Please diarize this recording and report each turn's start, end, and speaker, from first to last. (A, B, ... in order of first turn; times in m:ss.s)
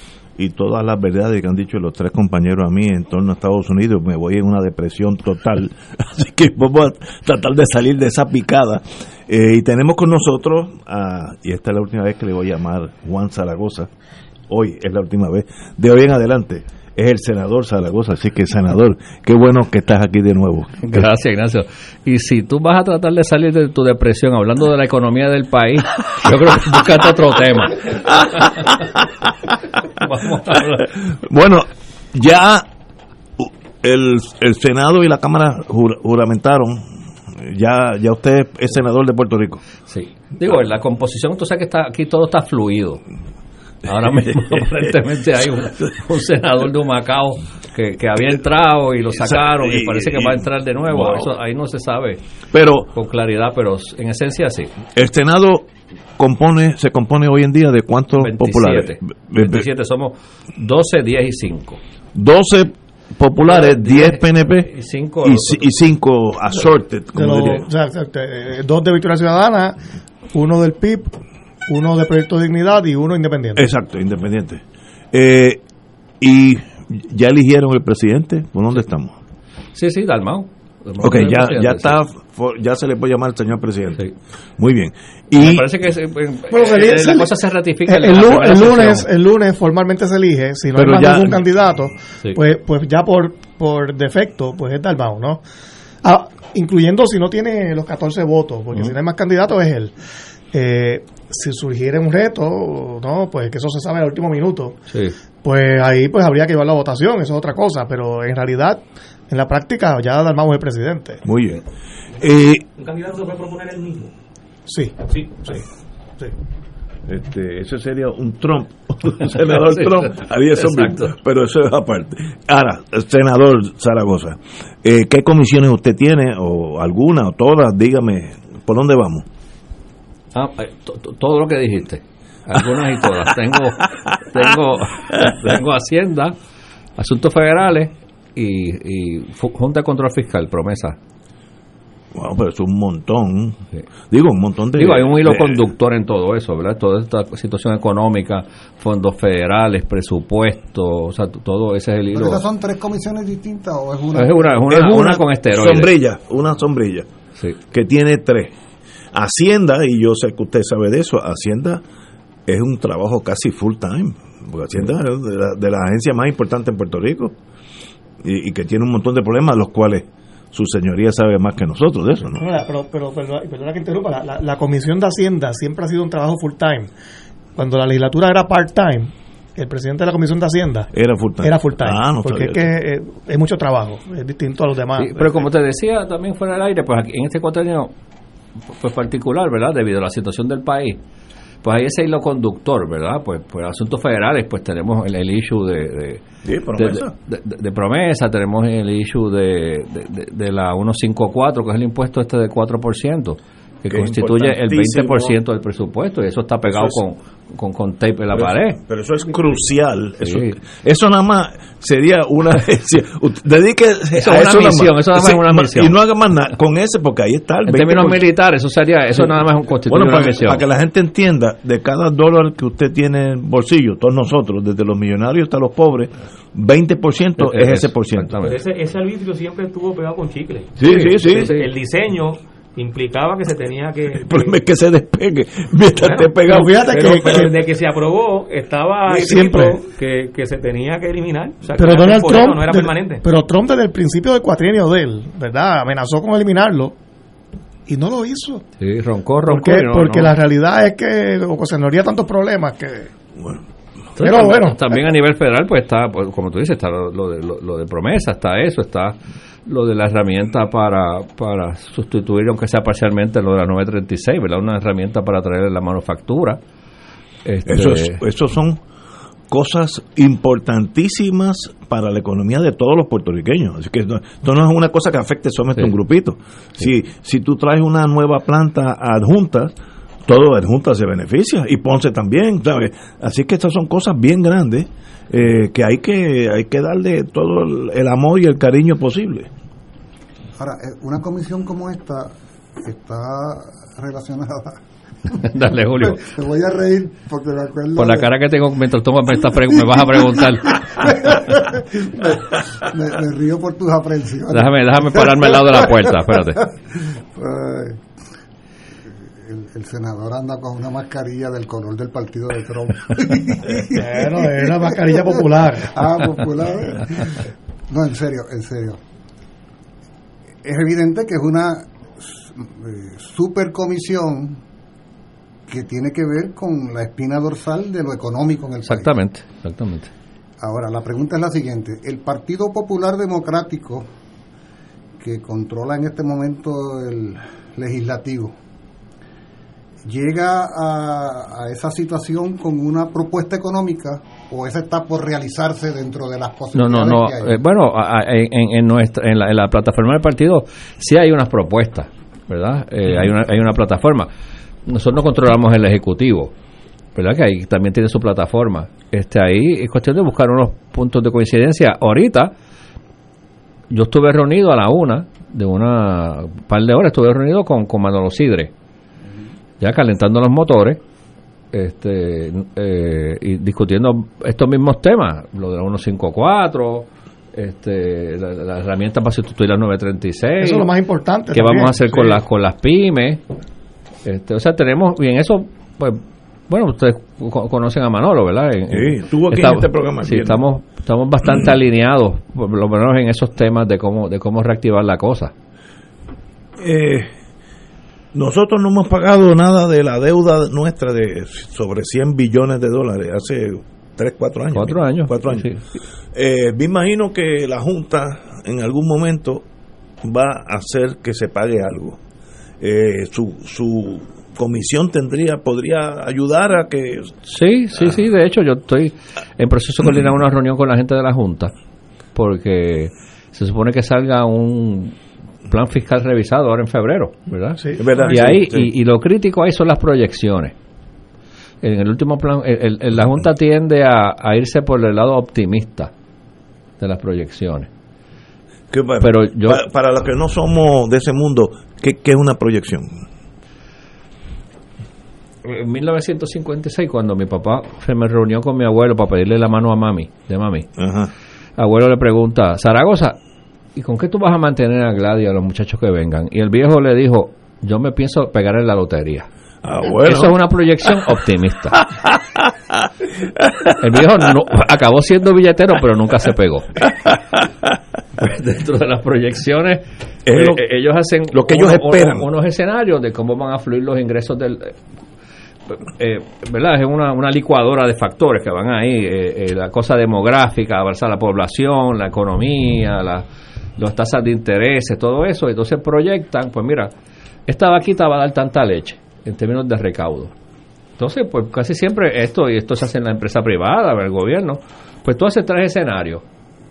0:00.4-0:13.9 A
0:14.5-0:21.1 A
0:20.8-0:28.2 B
0:30.0-0:30.9 B
0:31.2-0:32.6 A
0:33.4-0:36.9 A
0:37.4-0:39.6 A
0:39.8-0:43.0 B
0:43.8-0:52.2 B
0:43.9-0:45.9 A
0:49.1-0:51.3 A
0:52.5-0:52.9 A
0:52.9-0:54.7 B
0:54.9-0:55.6 A
0:56.2-0:59.7 A
0:58.2-1:01.8 B
1:02.1-1:07.6 A
1:03.4-1:05.7 B
1:07.1-1:09.8 C
1:10.3-1:11.2 C
1:11.7-1:13.7 C
1:13.6-1:14.6 A
1:15.1-1:15.6 A
1:16.2-1:19.1 A
1:19.7-1:22.0 B
1:21.0-1:24.0 A
1:24.6-1:25.8 A
1:25.3-1:29.1 B
1:26.5-1:35.4 C
1:30.8-1:31.4 A
1:36.0-1:39.9 C
1:40.5-1:44.8 C
1:44.9-1:45.2 B
1:45.4-1:51.2 C
1:51.2-1:51.6 A
1:52.2-1:52.6 A
1:52.8-1:54.1 D
1:54.7-1:55.6 C
1:55.0-1:55.5 D
1:57.1-2:09.2 A
1:59.2-2:01.1 B
2:10.3-2:16.3 B
2:17.0-2:21.0 B
2:22.1-2:23.6 A
2:24.1-2:25.7 A
2:24.8-2:32.4 B
2:32.1-2:34.7 E
2:34.1-2:35.9 B
2:34.7-2:37.0 A
2:37.7-2:38.5 A
2:39.1-2:41.8 A
2:42.5-2:47.3 A
2:48.2-2:52.4 A
2:52.4-2:56.9 C
2:57.6-3:00.9 C
3:00.9-3:02.7 A
3:01.4-3:05.4 C
3:05.0-3:07.9 B
3:08.7-3:11.0 B
3:11.6-3:16.2 B
3:16.4-3:17.1 A
3:16.8-3:28.8 B
3:23.9-3:25.4 A
3:26.7-3:27.0 A
3:28.3-3:38.3 A
3:30.2-3:30.6 B
3:34.2-3:35.9 B
3:37.6-3:40.6 B
3:39.1-3:48.3 A
3:47.4-3:48.6 B
3:48.4-3:54.6 D
3:50.8-3:51.5 A
3:50.8-3:51.7 B
3:54.1-3:57.5 A
3:56.0-4:03.2 D
3:56.4-3:57.6 C
3:59.1-3:59.4 A
3:59.2-3:59.8 C
4:01.7-4:06.9 C
4:07.9-4:08.6 C
4:08.8-4:10.4 B
4:09.4-4:13.1 C
4:14.2-4:26.6 B
4:14.2-4:15.0 C
4:27.4-4:28.2 B
4:27.7-4:28.8 A
4:29.5-4:39.7 A
4:40.3-4:49.5 A
4:50.6-4:58.3 E
4:55.4-4:56.2 B
4:58.0-5:01.1 B
5:00.9-5:08.0 E
5:04.5-5:06.6 B
5:09.4-5:19.0 E
5:13.9-5:16.0 C
5:20.6-5:24.6 E
5:25.7-5:29.1 E
5:28.8-5:30.1 B
5:30.6-5:34.1 E
5:35.2-5:38.5 E
5:40.0-5:47.6 E
5:46.7-5:54.3 B
5:54.8-5:56.5 B
5:57.1-6:02.5 B
6:03.9-6:08.7 B
6:09.8-6:11.0 B
6:11.7-6:20.9 B
6:20.6-6:22.2 C
6:21.5-6:23.4 B
6:24.2-6:35.5 B
6:28.9-6:30.6 A
6:36.8-6:37.3 A
6:38.3-6:45.7 A
6:44.7-6:45.8 B
6:46.3-6:49.6 A
6:50.2-6:52.2 A
6:52.8-6:57.3 A
6:57.4-7:01.7 B
6:57.9-6:58.2 A
7:02.3-7:05.2 B
7:05.7-7:10.7 B
7:07.8-7:08.1 C
7:08.0-7:08.9 A
7:11.8-7:16.1 B
7:17.0-7:17.9 B
7:18.9-7:23.2 A
7:19.2-7:19.8 B
7:25.6-7:30.9 B
7:31.0-7:31.3 A
7:31.8-7:33.4 B
7:34.0-7:39.5 B
7:39.8-7:41.2 A
7:40.0-7:42.0 B
7:42.0-7:42.6 A
7:43.6-7:43.9 A
7:44.0-7:46.9 B
7:47.1-7:47.9 A
7:48.4-7:55.0 B
7:50.4-7:50.8 A
7:51.5-7:52.5 A
7:55.9-8:03.4 B
8:04.0-8:07.1 B
8:07.7-8:10.5 B
8:11.2-8:16.4 B